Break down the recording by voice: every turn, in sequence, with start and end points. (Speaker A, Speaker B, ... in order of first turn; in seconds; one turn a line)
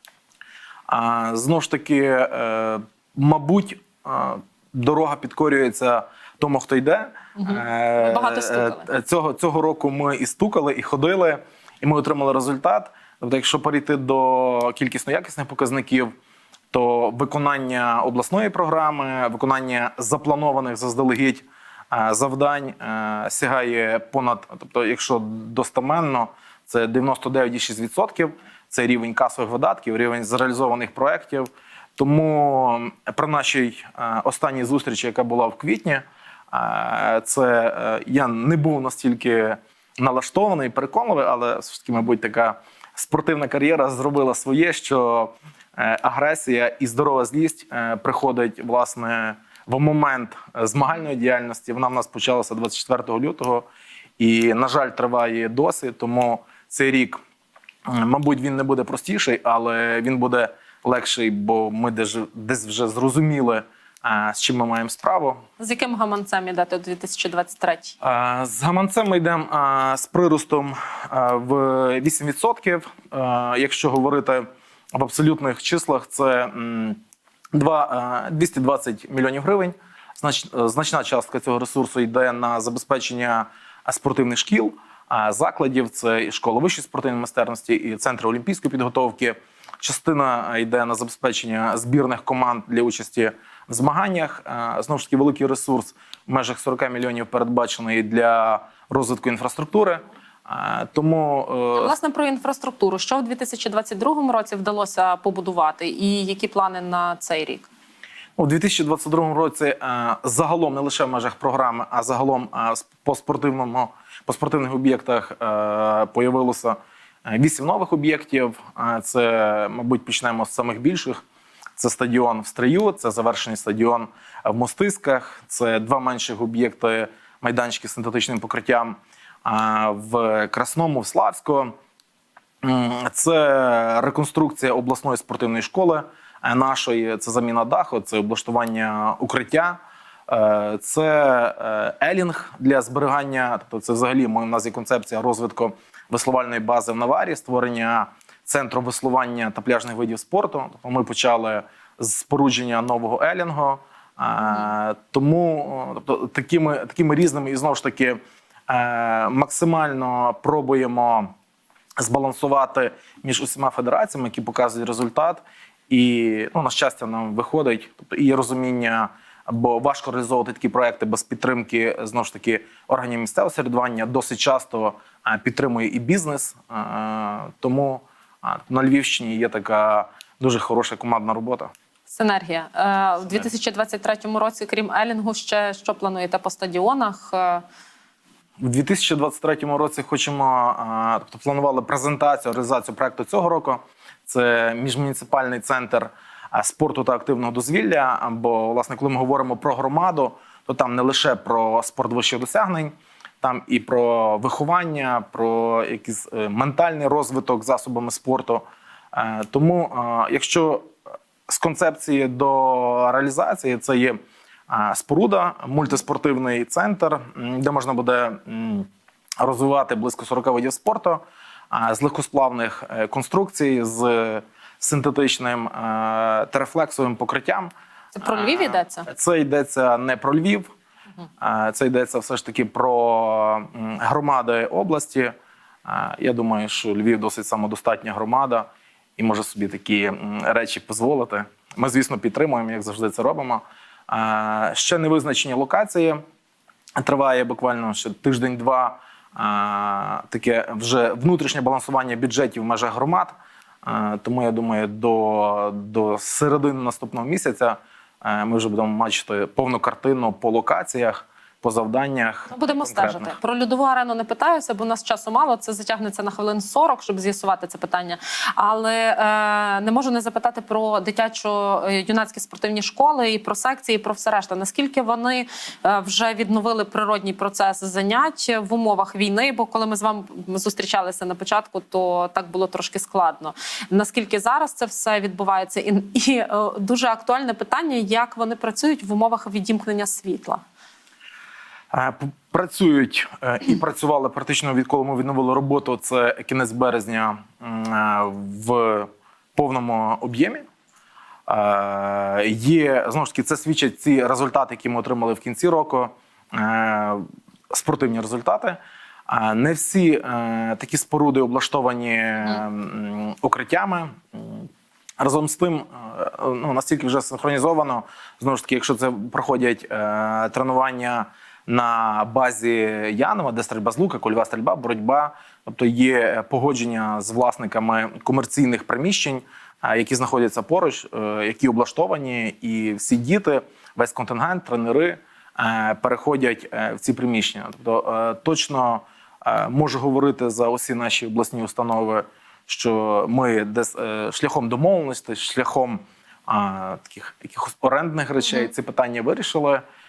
Speaker A: 0.9-16.1
Speaker B: 7.4-8.9
Speaker A: 16.7-53.7
Speaker A: 54.2-57.2
Speaker A: 57.9-65.4
Speaker B: 65.6-67.9
Speaker A: 68.0-77.0
Speaker A: 77.5-101.9
Speaker B: 101.8-107.7
Speaker A: 108.4-121.2
Speaker A: 121.8-131.7
Speaker A: 132.6-161.3
Speaker A: 162.0-181.7
Speaker B: 182.1-187.6
Speaker A: 188.6-210.9
Speaker A: 211.5-214.2
Speaker A: 214.7-218.9
Speaker A: 219.4-230.7
Speaker B: 228.2-229.1
Speaker A: 231.4-235.3
Speaker A: 235.8-246.2
Speaker A: 247.0-263.3
Speaker B: 262.5-290.6
Speaker A: 291.9-300.6
Speaker A: 301.5-314.7
Speaker A: 315.2-349.8